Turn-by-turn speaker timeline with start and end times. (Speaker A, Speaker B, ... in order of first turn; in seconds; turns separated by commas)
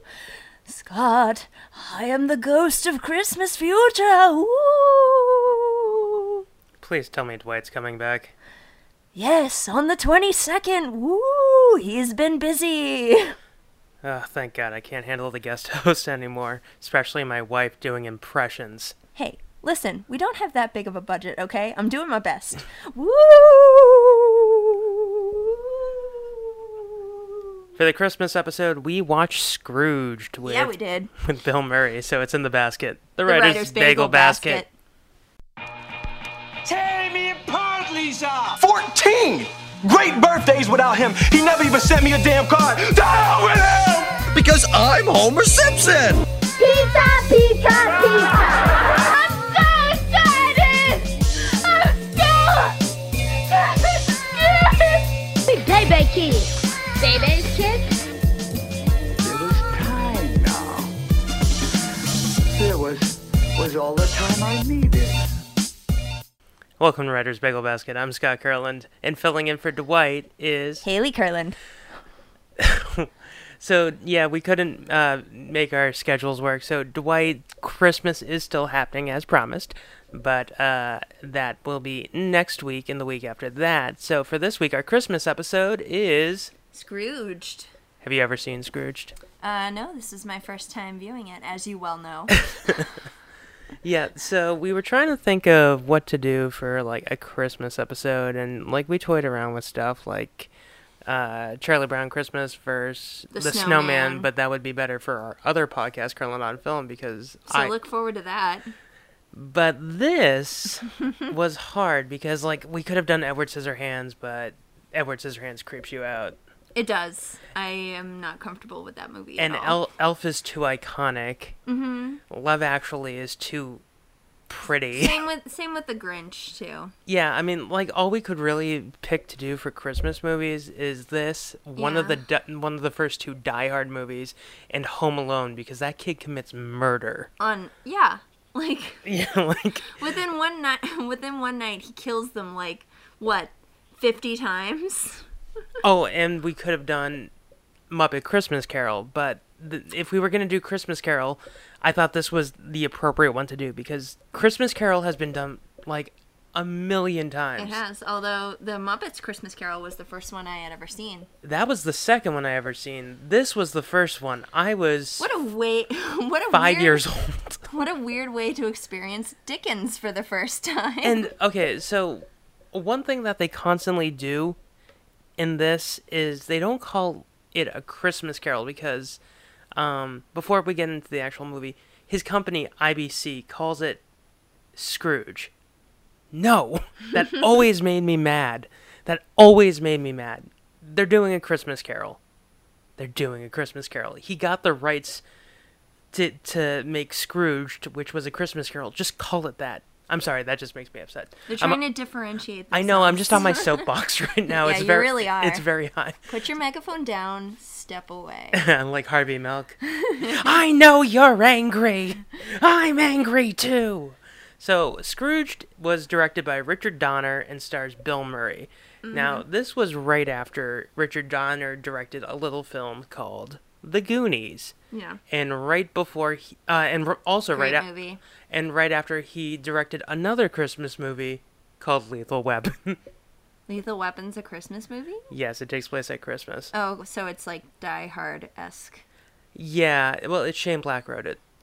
Speaker A: 0.7-6.1, Speaker B: 6.8-8.3, Speaker A: 9.1-13.3, Speaker B: 14.0-18.9, Speaker A: 19.1-27.4, Speaker B: 27.8-34.6, Speaker A: 30.4-31.1, Speaker A: 33.2-34.7, Speaker C: 36.6-38.6, Speaker D: 38.6-46.2, Speaker E: 46.6-52.8, Speaker E: 53.5-58.0, Speaker F: 59.2-60.9, Speaker F: 62.5-65.2, Speaker B: 66.8-70.8, Speaker A: 70.8-71.6, Speaker B: 72.6-86.5, Speaker A: 86.7-87.7, Speaker B: 88.0-89.2, Speaker A: 89.4-92.8, Speaker B: 92.6-92.9, Speaker B: 93.8-100.5, Speaker B: 101.0-107.7, Speaker A: 103.3-104.3, Speaker A: 107.5-108.7, Speaker B: 109.3-116.4, Speaker A: 116.7-119.8, Speaker B: 119.3-121.6, Speaker A: 121.7-122.2, Speaker B: 122.3-123.8, Speaker B: 124.5-125.2, Speaker A: 124.9-126.9, Speaker B: 127.0-137.3, Speaker A: 131.8-132.2, Speaker A: 137.4-139.1, Speaker B: 139.0-140.0, Speaker A: 139.9-145.2, Speaker B: 145.8-147.3, Speaker B: 147.9-157.8, Speaker A: 157.6-161.3, Speaker B: 161.4-165.3, Speaker A: 165.2-167.0, Speaker B: 166.5-167.6, Speaker A: 167.7-171.3, Speaker B: 171.0-174.6, Speaker B: 175.4-179.2, Speaker B: 179.7-184.0, Speaker B: 184.7-185.5, Speaker B: 186.3-192.2, Speaker B: 193.0-195.2, Speaker B: 196.1-201.8, Speaker A: 201.5-203.9, Speaker B: 202.7-206.3, Speaker A: 204.5-205.7, Speaker A: 206.3-208.6, Speaker B: 208.5-224.7, Speaker A: 209.9-210.4, Speaker A: 219.0-219.4, Speaker A: 224.9-225.2, Speaker B: 225.3-227.9, Speaker A: 227.5-228.2, Speaker B: 228.5-233.0, Speaker A: 233.7-235.2, Speaker B: 235.3-236.7, Speaker A: 236.7-239.0, Speaker B: 239.5-241.4